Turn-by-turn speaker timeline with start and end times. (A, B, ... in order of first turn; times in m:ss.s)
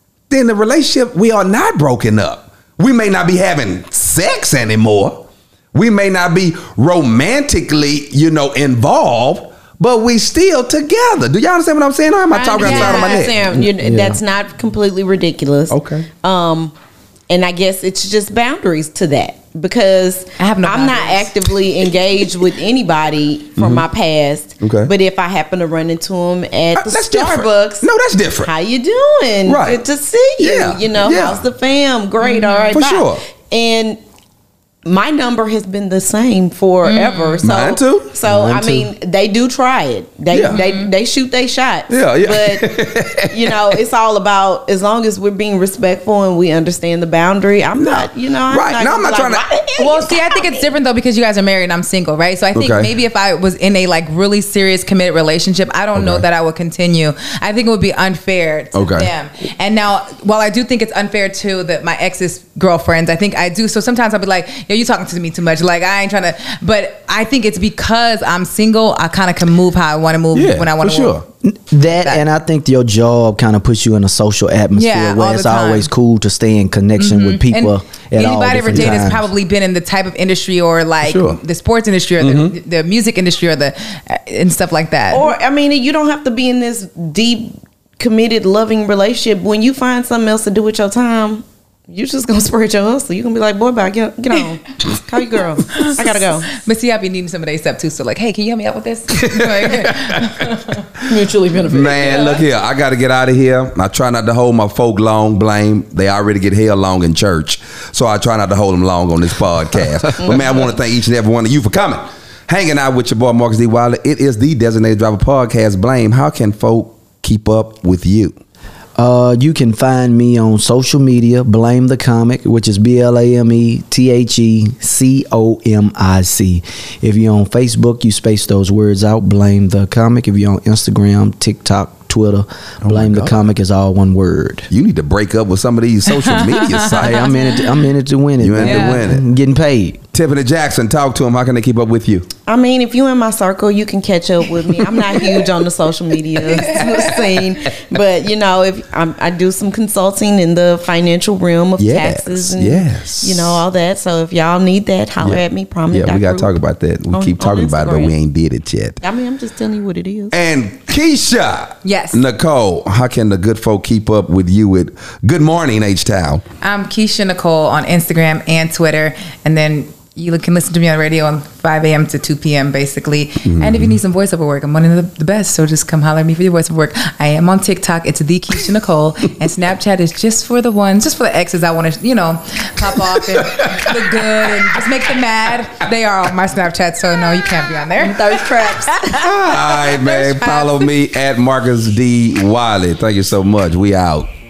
0:00.3-0:13.6 A
0:12.3-0:16.7 B
0:12.6-0:13.2 C
0:13.6-0:14.2 D
0:15.7-0:16.1 A
0:17.3-0:27.9 B
0:20.4-0:21.3 C
0:23.6-0:23.8 A
0:24.6-0:24.9 A
0:26.7-0:28.5 A
0:28.4-0:34.0 B
0:29.4-0:29.8 A
0:30.4-0:31.4 A
0:32.2-0:32.8 C
0:32.7-0:33.2 A
0:34.8-0:42.7 B
0:36.8-0:37.4 C
0:37.4-0:38.9 A
0:40.3-0:40.6 A
0:40.5-0:40.9 C
0:41.9-0:43.7 A
0:43.3-0:50.6 B
0:47.8-0:49.4 A
0:49.8-1:11.2 C
0:52.5-0:52.9 A
0:55.9-0:56.2 A
0:58.7-0:59.1 A
1:10.3-1:11.2 A
1:11.4-1:19.2 D
1:11.9-1:12.2 C
1:14.7-1:15.9 C
1:17.0-1:25.3 C
1:18.7-1:19.0 A
1:21.0-1:21.4 A
1:22.2-1:22.6 A
1:25.1-1:36.5 B
1:35.7-1:41.0 C
1:39.2-1:40.3 A
1:41.0-1:42.4 B
1:41.6-1:58.4 A
1:42.1-1:42.4 C
1:59.0-2:14.7 D
2:12.8-2:13.4 A
2:14.7-2:17.3 A
2:16.2-2:17.6 C
2:16.9-2:20.0 D
2:18.4-2:19.2 A
2:18.6-2:19.0 C
2:20.1-2:22.3 A
2:22.5-2:36.6 B
2:26.5-2:27.2 C
2:31.8-2:33.6 A
2:35.2-2:39.0 A
2:37.1-2:38.1 B
2:39.0-2:40.3 B
2:40.3-2:46.4 A
2:41.8-2:42.2 C
2:46.6-3:10.9 C
2:53.4-2:54.0 A
3:03.4-3:04.5 A
3:08.0-3:09.1 B
3:09.1-3:14.3 A